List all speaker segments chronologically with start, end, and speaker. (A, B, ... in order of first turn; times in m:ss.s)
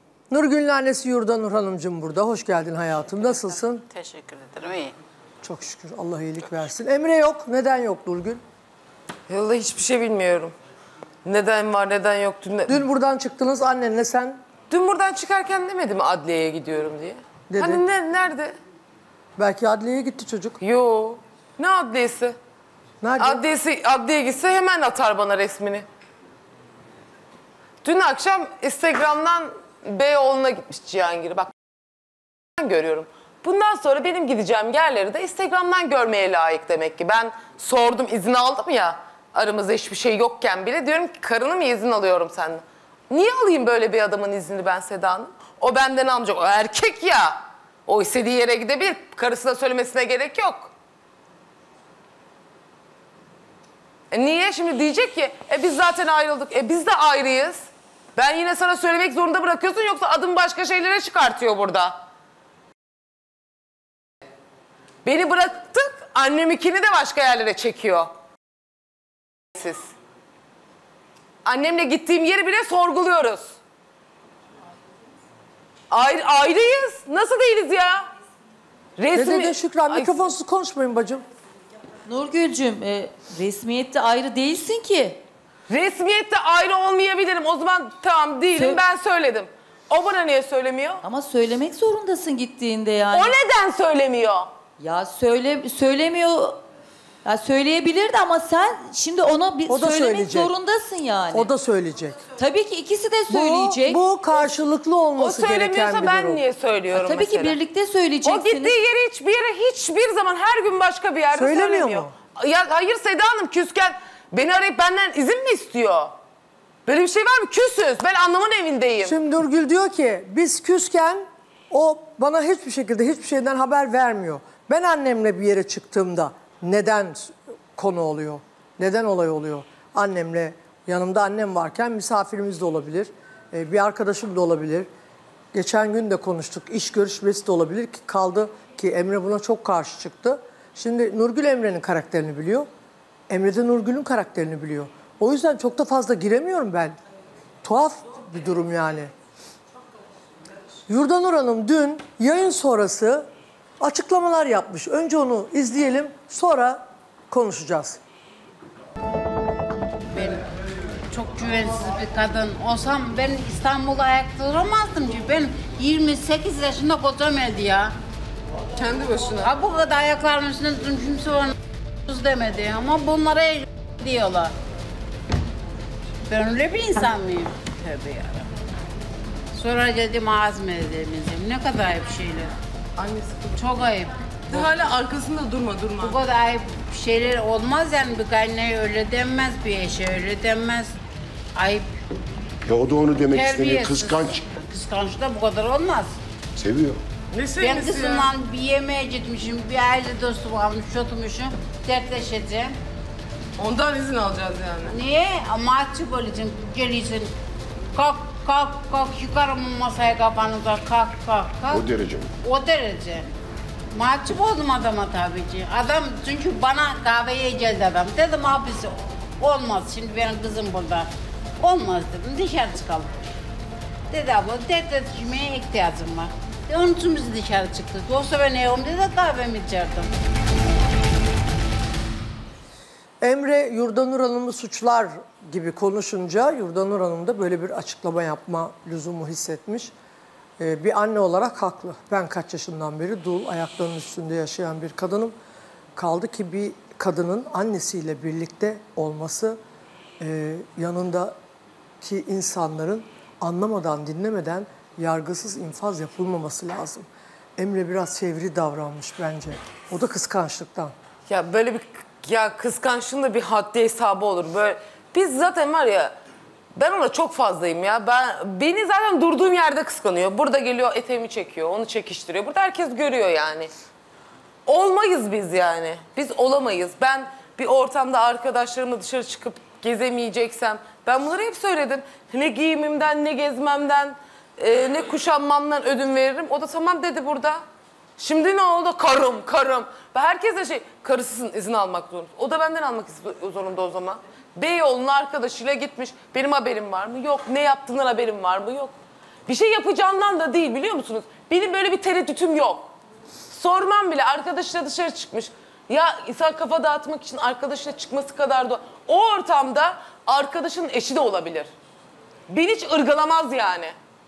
0:00.3-0:03.9 A
0:04.0-0:04.9 B
0:05.4-0:08.4 A
0:09.3-0:10.5 C
0:11.2-0:12.8 C
0:12.7-0:14.4 A
0:14.7-0:18.6 C
0:17.5-0:17.8 A
0:19.4-0:20.6 A
0:20.6-0:22.4 C
0:23.0-0:23.4 A
0:23.2-0:25.8 C
0:27.8-0:31.5 C
0:32.6-0:50.7 C
0:54.1-1:02.0 C
1:05.0-1:08.1 C
1:09.6-1:09.9 C
1:11.4-1:13.6 C
1:15.9-1:18.1 C
1:19.0-1:20.2 C
1:19.1-1:21.2 A
1:22.0-1:25.2 D
1:25.7-1:31.0 C
1:28.5-1:28.8 D
1:31.0-1:33.4 D
1:33.1-1:34.5 C
1:34.8-1:36.6 D
1:37.2-1:41.5 D
1:39.7-1:40.5 A
1:41.3-1:42.2 A
1:42.3-1:44.0 D
1:43.3-1:46.4 A
1:45.2-1:47.6 C
1:46.9-1:48.8 D
1:48.2-1:56.1 C
1:51.3-1:52.1 A
1:56.8-1:59.2 C
1:59.0-2:14.9 A
2:15.5-2:22.7 A
2:23.3-2:27.0 A
2:27.6-2:29.1 A
2:30.9-2:33.3 A
2:33.8-2:38.0 A
2:40.1-2:40.4 B
2:41.1-2:47.9 B
2:48.8-2:49.5 C
2:49.4-2:54.5 B
2:56.3-2:58.5 B
2:59.5-3:02.5 B
3:03.0-3:03.6 C
3:03.6-3:04.6 B
3:04.5-3:06.2 C
3:06.0-3:10.9 B
3:11.5-3:11.9 B
3:12.6-3:14.5 E
3:13.3-3:16.1 B
3:16.6-3:17.0 E
3:17.3-3:18.3 C
3:17.6-3:22.7 B
3:23.6-3:25.0 C
3:24.9-3:27.3 B
3:27.9-3:33.3 B
3:31.7-3:32.3 E
3:33.9-3:43.2 B
3:44.1-3:50.1 B
3:53.2-3:59.9 A
4:00.6-4:05.3 A
4:06.0-4:09.6 A
4:10.2-4:11.3 A
4:12.0-4:20.9 A
4:21.3-4:26.1 C
4:26.7-4:33.7 C
4:34.6-4:47.6 C
4:48.2-4:58.9 C
4:59.5-5:02.9 C
5:03.5-5:11.7 C
5:12.5-5:13.9 C